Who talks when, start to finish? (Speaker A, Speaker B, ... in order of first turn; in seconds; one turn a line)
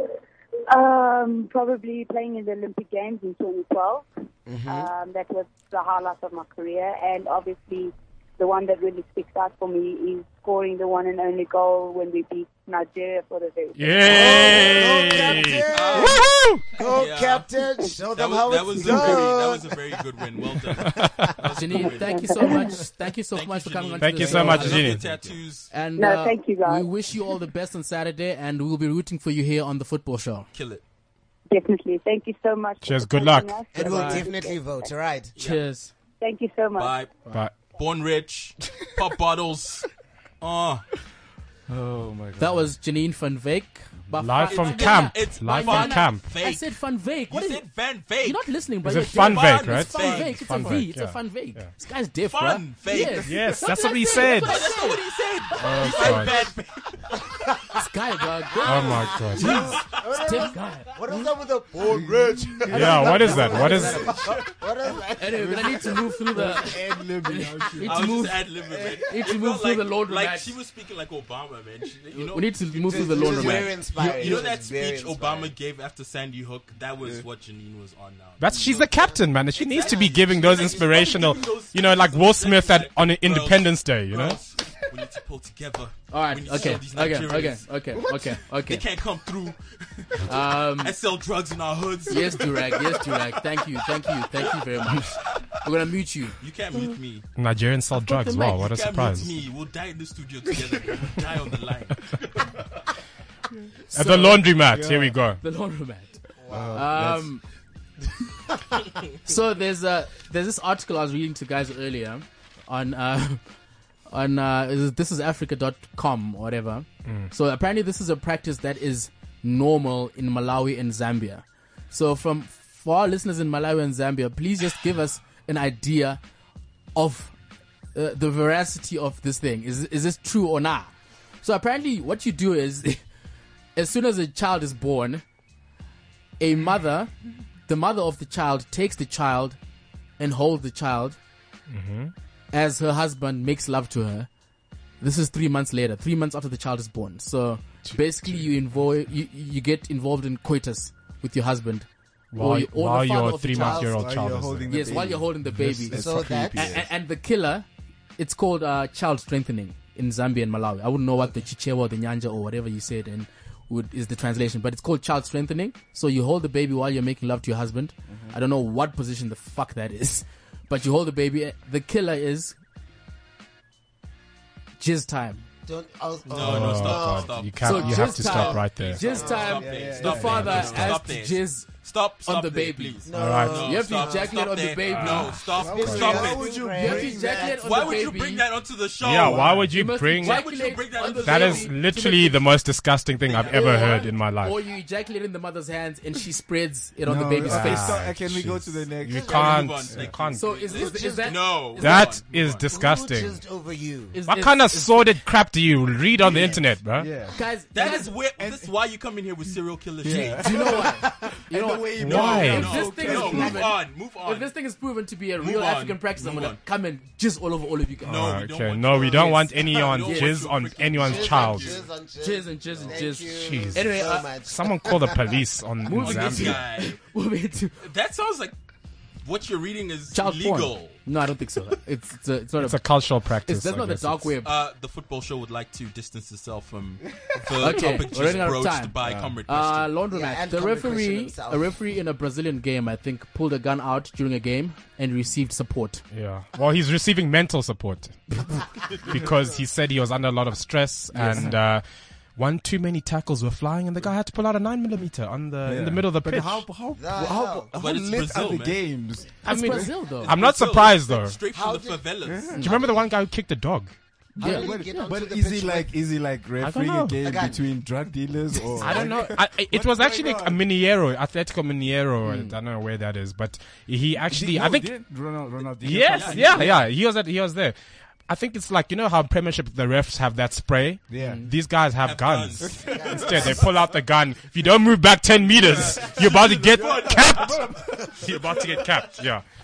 Speaker A: 0.7-4.1
Speaker B: 4.5-4.9
Speaker A: 4.7-14.4
Speaker C: 13.7-16.6
Speaker B: 14.0-21.0
Speaker D: 15.7-17.5
Speaker D: 18.1-22.3
Speaker C: 20.9-21.3
Speaker E: 21.5-24.9
Speaker A: 21.9-22.8
Speaker D: 23.3-25.7
Speaker C: 24.0-25.0
Speaker F: 24.2-25.4
Speaker E: 25.7-30.5
Speaker A: 26.0-26.9
Speaker D: 30.5-30.8
Speaker A: 31.5-34.9
Speaker C: 32.8-33.6
Speaker B: 33.7-35.3
Speaker E: 33.8-34.2
Speaker D: 35.4-35.6
Speaker E: 35.4-35.9
Speaker A: 36.2-37.0
Speaker D: 36.8-39.9
Speaker C: 37.3-37.5
Speaker D: 40.4-40.9
Speaker F: 41.7-42.7
Speaker E: 42.4-55.0
Speaker C: 44.2-46.3
Speaker D: 44.4-46.6
Speaker D: 47.3-50.4
Speaker C: 48.8-51.7
Speaker D: 52.2-56.9
Speaker C: 53.2-54.7
Speaker C: 55.6-56.3
Speaker E: 57.7-60.9
Speaker C: 58.6-59.7
Speaker D: 58.6-60.1
Speaker B: 58.7-67.1
Speaker F: 61.7-64.5
Speaker C: 62.7-64.1
Speaker E: 62.7-64.2
Speaker E: 65.2-70.5
Speaker F: 65.3-69.0
Speaker D: 67.8-78.7
Speaker E: 72.1-74.2
Speaker B: 72.8-75.5
Speaker F: 74.0-74.4
Speaker C: 78.4-84.4
Speaker B: 78.5-80.3
Speaker D: 79.5-87.7
Speaker E: 86.1-88.8
Speaker D: 88.6-93.2
Speaker E: 90.2-90.9
Speaker E: 92.1-96.3
Speaker D: 96.4-97.3
Speaker C: 97.3-99.3
Speaker D: 98.0-102.4
Speaker E: 103.9-104.6
Speaker C: 103.9-105.4
Speaker F: 104.7-105.2
Speaker E: 105.4-107.4
Speaker B: 106.4-106.9
Speaker F: 106.5-107.3
Speaker E: 109.2-113.4
Speaker E: 114.1-126.2
Speaker E: 126.9-127.3
Speaker E: 127.9-130.9
Speaker E: 131.4-133.0
Speaker E: 133.8-135.2
Speaker E: 136.4-137.1
Speaker E: 137.7-139.6
Speaker E: 140.2-141.2
Speaker C: 141.7-142.1
Speaker E: 142.5-144.3
Speaker E: 145.0-153.9
Speaker C: 147.8-148.4
Speaker C: 152.3-154.9
Speaker F: 153.6-156.9
Speaker E: 154.7-157.7
Speaker B: 155.9-156.7
Speaker E: 158.2-172.5
Speaker F: 168.1-168.4
Speaker E: 174.8-175.4
Speaker B: 175.7-177.5
Speaker D: 176.3-186.4
Speaker C: 176.4-179.2
Speaker E: 177.6-185.4
Speaker B: 178.1-179.9
Speaker F: 179.6-181.0
Speaker C: 180.2-180.9
Speaker B: 183.0-184.5
Speaker C: 183.1-183.6
Speaker C: 184.9-186.2
Speaker B: 185.4-188.0
Speaker F: 185.6-187.6
Speaker E: 186.7-188.4
Speaker D: 187.6-189.5
Speaker C: 189.0-194.6
Speaker F: 189.2-189.9
Speaker E: 189.3-192.4
Speaker D: 190.2-191.7
Speaker D: 193.2-194.0
Speaker E: 193.4-198.0
Speaker F: 197.0-200.3
Speaker C: 197.4-200.5
Speaker D: 199.1-202.7
Speaker E: 200.4-202.1
Speaker B: 200.5-201.7
Speaker C: 201.8-203.4
Speaker B: 202.7-204.2
Speaker E: 204.1-205.1
Speaker C: 204.3-207.1
Speaker F: 206.2-208.7
Speaker E: 207.3-208.1
Speaker D: 207.7-210.9
Speaker F: 210.0-213.7
Speaker E: 210.1-218.2
Speaker C: 212.0-212.9
Speaker D: 212.1-214.5
Speaker D: 215.4-216.6
Speaker C: 218.1-221.7
Speaker D: 218.1-221.8
Speaker E: 219.1-220.3
Speaker B: 220.9-225.4
Speaker E: 222.2-224.3
Speaker C: 223.2-226.6
Speaker E: 225.8-227.8
Speaker D: 225.9-227.0
Speaker D: 227.8-228.5
Speaker D: 229.2-231.0
Speaker E: 230.1-232.8
Speaker C: 232.6-234.3
Speaker E: 233.5-234.5
Speaker D: 234.4-239.9
Speaker E: 237.6-246.0
Speaker F: 239.0-239.4
Speaker B: 240.1-241.7
Speaker C: 246.1-248.4
Speaker C: 249.0-251.8
Speaker F: 251.1-251.6
Speaker C: 252.3-256.8
Speaker F: 255.6-259.9
Speaker B: 256.9-257.7
Speaker D: 257.7-258.8
Speaker C: 259.4-261.4
Speaker E: 259.4-260.4
Speaker D: 260.1-262.5
Speaker B: 261.5-263.0
Speaker F: 262.2-262.9
Speaker E: 262.6-262.8
Speaker C: 262.6-263.9
Speaker F: 264.4-270.7
Speaker E: 264.4-265.0
Speaker B: 264.4-265.9
Speaker C: 266.6-267.4
Speaker B: 267.2-267.6
Speaker C: 268.7-275.0
Speaker B: 268.9-269.2
Speaker E: 272.2-272.6
Speaker F: 274.3-276.9
Speaker C: 275.8-277.8
Speaker D: 276.0-276.8
Speaker C: 278.3-289.4
Speaker F: 281.1-281.5
Speaker E: 281.2-281.5
Speaker D: 282.0-283.6
Speaker F: 282.6-284.0
Speaker B: 282.9-283.6
Speaker D: 285.5-287.6
Speaker F: 285.6-289.0
Speaker D: 288.2-288.8